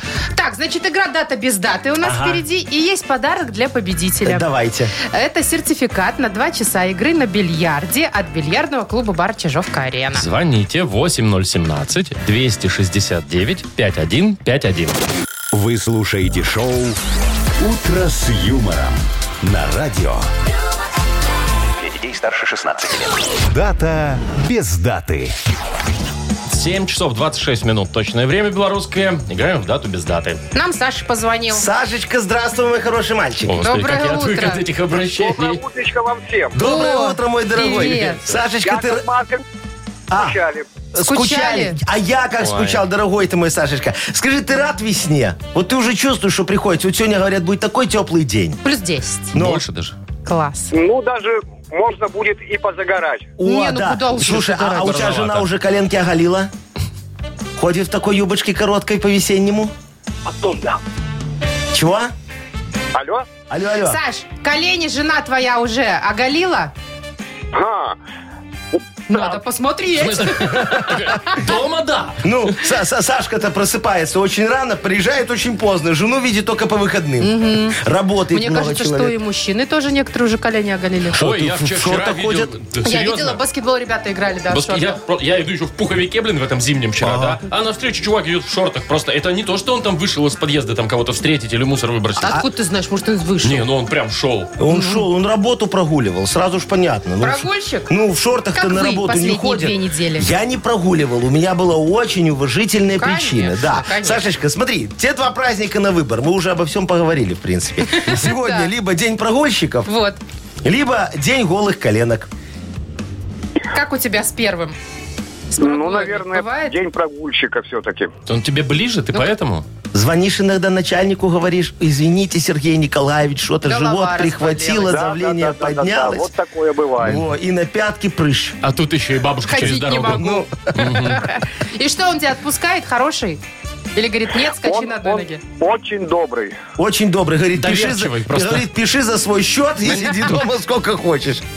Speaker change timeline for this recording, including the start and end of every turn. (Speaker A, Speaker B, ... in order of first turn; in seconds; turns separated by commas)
Speaker A: 0.3-4.5, Speaker B: 2.0-2.4, Speaker B: 4.2-4.9, Speaker A: 5.0-10.2, Speaker C: 10.1-15.0, Speaker D: 15.5-17.0, Speaker D: 17.6-20.3, Speaker D: 21.8-25.3, Speaker C: 26.5-30.4, Speaker A: 30.5-31.6, Speaker B: 31.5-33.6, Speaker C: 33.5-35.6, Speaker A: 33.6-34.6, Speaker E: 35.0-36.5, Speaker B: 36.5-39.0, Speaker A: 36.5-38.3, Speaker E: 38.6-39.4, Speaker B: 40.1-40.4, Speaker E: 40.1-40.7, Speaker B: 40.9-48.6, Speaker A: 41.0-41.8, Speaker C: 42.4-42.8, Speaker A: 48.6-49.3, Speaker B: 49.3-49.6, Speaker C: 49.3-50.0, Speaker A: 50.2-50.7, Speaker E: 50.7-53.3, Speaker B: 53.4-56.5, Speaker A: 53.4-55.0, Speaker C: 54.2-55.5, Speaker B: 57.6-59.7, Speaker E: 60.2-60.8, Speaker B: 61.7-62.1, Speaker E: 62.9-63.2, Speaker B: 63.5-64.0, Speaker A: 63.8-66.7, Speaker E: 67.5-68.0, Speaker E: 68.8-69.4, Speaker A: 69.1-71.5, Speaker C: 70.0-72.3, Speaker B: 72.2-79.2, Speaker A: 77.2-77.8, Speaker A: 78.3-81.2, Speaker B: 81.1-82.5, Speaker C: 81.2-83.4, Speaker A: 82.8-85.0, Speaker C: 84.5-92.4, Speaker B: 87.0-87.4, Speaker A: 92.2-93.7, Speaker C: 93.4-94.5, Speaker B: 94.6-109.9, Speaker A: 94.7-95.0, Speaker A: 97.2-97.9, Speaker A: 98.5-100.3, Speaker A: 103.0-104.2, Speaker A: 107.9-108.7, Speaker A: 109.8-110.2, Speaker B: 110.6-112.3, Speaker A: 113.7-114.8, Speaker A: 115.5-116.7, Speaker E: 115.6-118.1, Speaker C: 118.3-119.6, Speaker B: 119.9-126.3, Speaker A: 123.7-125.0, Speaker E: 124.9-127.2, Speaker B: 127.0-128.6, Speaker C: 128.6-131.2, Speaker A: 129.4-133.4, Speaker B: 130.0-130.5, Speaker A: 133.9-135.4, Speaker E: 134.6-136.6, Speaker B: 136.8-141.4, Speaker C: 137.6-138.7, Speaker A: 139.9-140.2